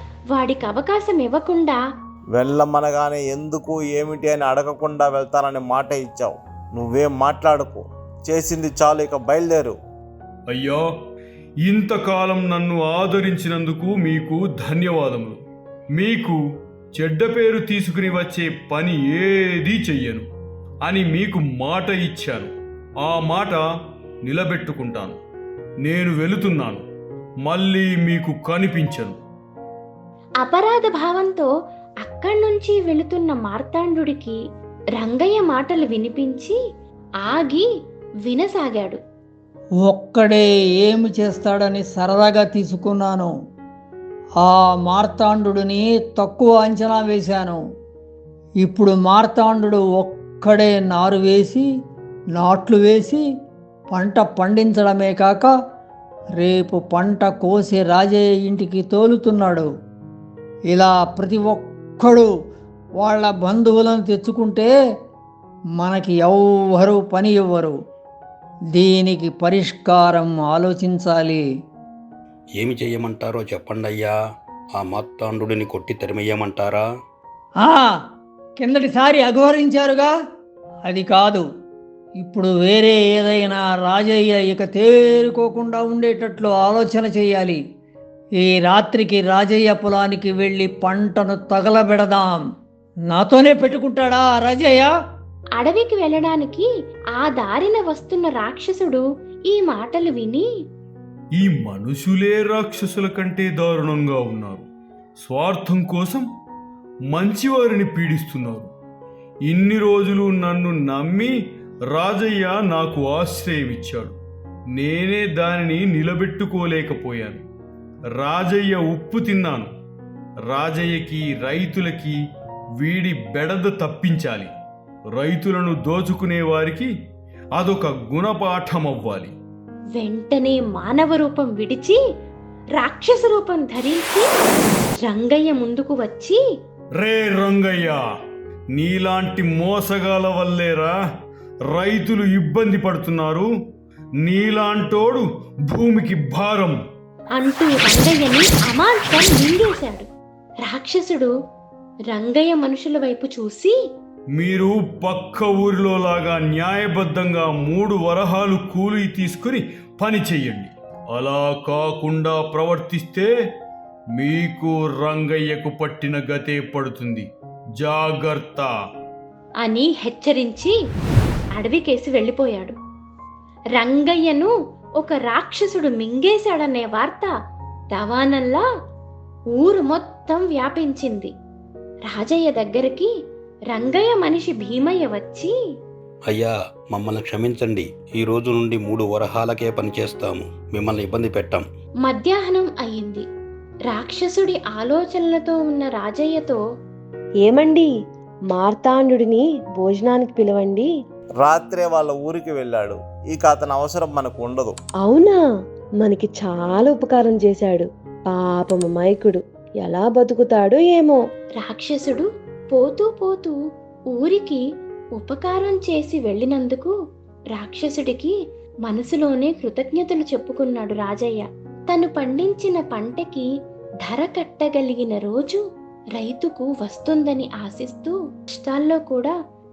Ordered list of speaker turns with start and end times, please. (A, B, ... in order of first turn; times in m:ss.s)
0:00.3-0:01.8 A
0:02.4-0:09.8 B
0:10.5-0:10.8 C
0:11.6-0:15.4 C
0:16.0-0:16.4 C
0:17.0-0:20.3 C
0:20.8-0:22.5 C
0:23.0-0:23.6 C
0:24.3-0:25.2 C
0:25.8-0:26.8 C
0:27.4-0:29.2 C
0:30.4-0:31.5 A
0:32.0-0:34.4 A
0:35.0-0:36.6 A
0:37.2-0:37.7 A
0:38.2-0:39.0 A
0:39.9-0:43.3 D
0:44.4-0:47.6 D
0:48.6-0:51.7 D
0:52.4-0:53.2 D
0:53.9-0:55.5 D
0:56.4-0:59.7 D
1:00.7-1:02.3 D
1:03.0-1:04.7 D
1:05.8-1:07.8 D
1:08.8-1:11.4 D
1:12.6-1:14.1 E
1:14.8-1:16.8 E
1:17.6-1:17.9 D
1:18.6-1:20.1 D
1:20.9-1:21.5 D
1:22.2-1:27.6 D
1:28.4-1:32.4 D
1:33.1-1:34.9 D
1:35.6-1:40.4 A
1:41.4-1:44.7 C
1:45.2-1:46.3 C
1:47.1-1:48.7 C
1:49.5-1:51.3 C
1:51.9-1:54.2 C
1:54.7-1:57.4 C
1:58.2-1:59.7 C
2:00.5-2:02.2 C
2:02.8-2:04.5 C
2:05.1-2:06.9 C
2:07.6-2:09.3 C
2:10.0-2:12.0 A
2:12.8-2:14.3 A
2:15.0-2:16.4 A
2:17.0-2:18.0 C
2:18.7-2:20.9 C
2:21.7-2:23.5 C
2:24.2-2:26.8 C
2:27.4-2:30.1 A
2:30.6-2:31.3 A
2:32.1-2:33.8 A
2:34.4-2:43.3 C
2:44.2-2:47.3 C
2:47.8-2:48.7 C
2:49.6-2:50.8 A
2:51.6-2:52.8 A
2:53.8-2:57.3 A
2:57.9-2:58.6 A
2:59.5-3:01.3 A
3:02.1-3:03.1 A
3:03.7-3:05.5 A
3:06.3-3:11.6 E
3:12.0-3:13.2 A
3:13.9-3:16.6 A
3:17.4-3:17.9 F
3:18.5-3:20.9 F
3:21.4-3:24.8 B
3:25.0-3:25.4 F
3:26.0-3:31.2 F
3:31.6-3:33.6 A
3:34.2-3:34.6 A
3:35.2-3:36.9 A
3:37.5-3:38.3 A
3:38.9-3:43.5 A
3:44.0-3:45.6 A
3:46.2-3:49.3 A